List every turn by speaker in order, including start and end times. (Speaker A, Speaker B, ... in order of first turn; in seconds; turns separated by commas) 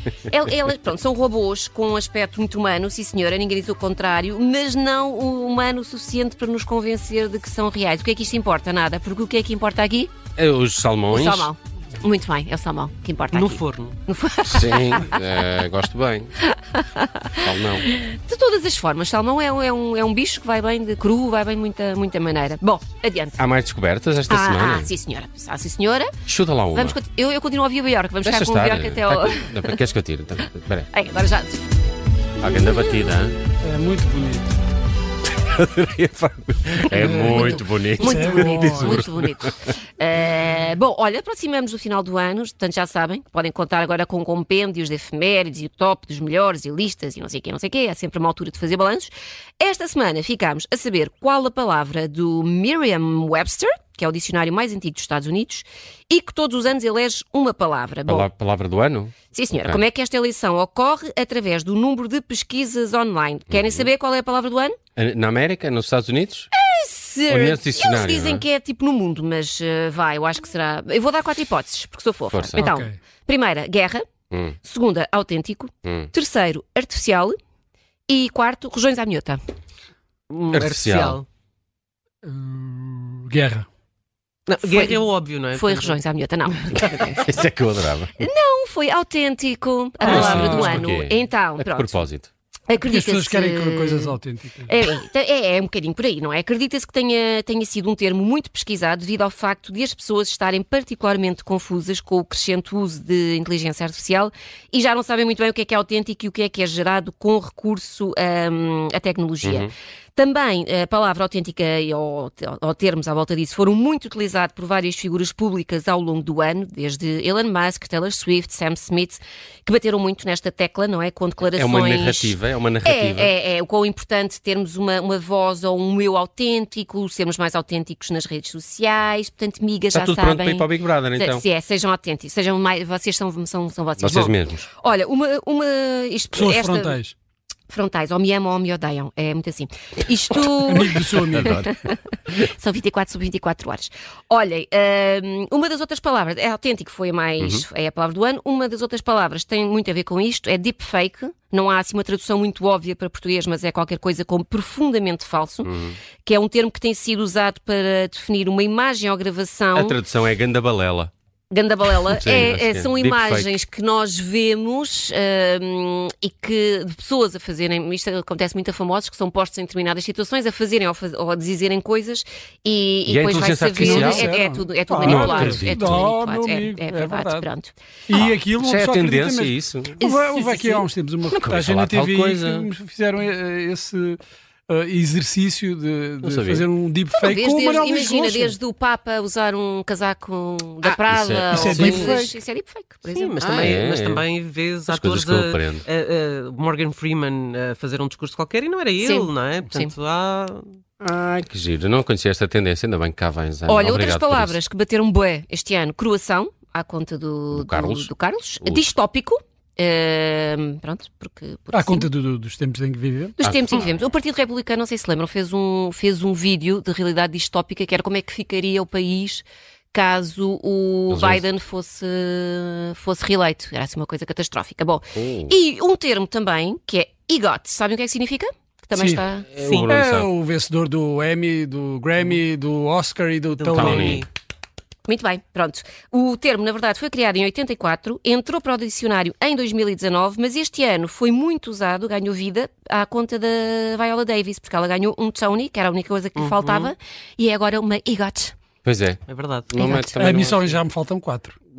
Speaker A: 0.3-10.1, Speaker B: 10.4-11.5, Speaker A: 11.1-15.2, Speaker C: 13.3-14.0, Speaker B: 14.5-16.4, Speaker A: 16.5-23.4, Speaker B: 17.4-17.9, Speaker B: 23.4-24.9, Speaker A: 24.3-26.1, Speaker B: 26.3-27.0, Speaker A: 26.7-29.7, Speaker B: 28.2-30.9, Speaker A: 30.9-31.7, Speaker B: 32.4-33.4, Speaker D: 33.6-34.6, Speaker B: 35.3-39.5, Speaker D: 36.8-39.1, Speaker A: 37.1-58.3, Speaker B: 58.1-59.8, Speaker A: 59.3-64.8, Speaker B: 63.5-63.9, Speaker B: 65.0-66.5, Speaker A: 66.5-74.1, Speaker B: 67.3-68.4, Speaker B: 72.3-72.7, Speaker D: 72.6-73.0, Speaker B: 74.3-74.6, Speaker A: 74.6-77.4, Speaker B: 75.8-76.1, Speaker A: 78.1-79.4, Speaker C: 80.3-81.3, Speaker B: 80.5-81.2, Speaker D: 82.2-83.7, Speaker C: 84.5-86.0, Speaker A: 84.6-87.3, Speaker B: 87.2-88.2, Speaker A: 88.2-92.1, Speaker D: 90.0-90.9, Speaker B: 90.0-92.3, Speaker A: 92.7-137.0, Speaker D: 92.8-94.7, Speaker B: 109.4-109.7, Speaker B: 121.6-123.3, Speaker B: 129.9-131.4, Speaker B: 134.0-134.7, Speaker D: 136.4-137.1, Speaker A: 137.7-155.7, Speaker D: 140.7-141.6, Speaker B: 141.3-141.7, Speaker B: 147.4-147.7, Speaker B: 155.6-156.0, Speaker A: 156.2-160.0, Speaker B: 159.8-161.1, Speaker A: 161.5-177.7, Speaker B: 162.1-163.6, Speaker B: 173.1-174.3, Speaker D: 173.7-177.5, Speaker B: 175.0-176.1, Speaker D: 178.1-188.6, Speaker B: 178.6-179.9, Speaker A: 180.0-180.8, Speaker B: 181.3-182.7, Speaker B: 186.2-186.7, Speaker A: 187.2-193.4, Speaker B: 190.8-192.2, Speaker D: 191.5-192.3, Speaker C: 193.0-200.8, Speaker B: 193.4-194.3, Speaker B: 194.9-195.9, Speaker A: 199.0-199.9, Speaker B: 201.0-204.6, Speaker A: 203.7-212.1, Speaker B: 207.5-208.1, Speaker B: 208.6-208.9, Speaker D: 211.7-213.3, Speaker A: 213.4-229.5, Speaker B: 213.4-213.9, Speaker B: 221.1-221.4, Speaker B: 225.2-225.6, Speaker D: 228.9-229.2, Speaker B: 229.5-230.3, Speaker C: 229.6-229.9, Speaker D: 229.9-234.2, Speaker C: 233.5-234.3, Speaker B: 233.7-234.2, Speaker A: 235.1-248.6, Speaker C: 246.4-246.9, Speaker B: 248.8-250.6, Speaker C: 249.3-250.8, Speaker A: 249.7-250.2, Speaker D: 250.2-251.6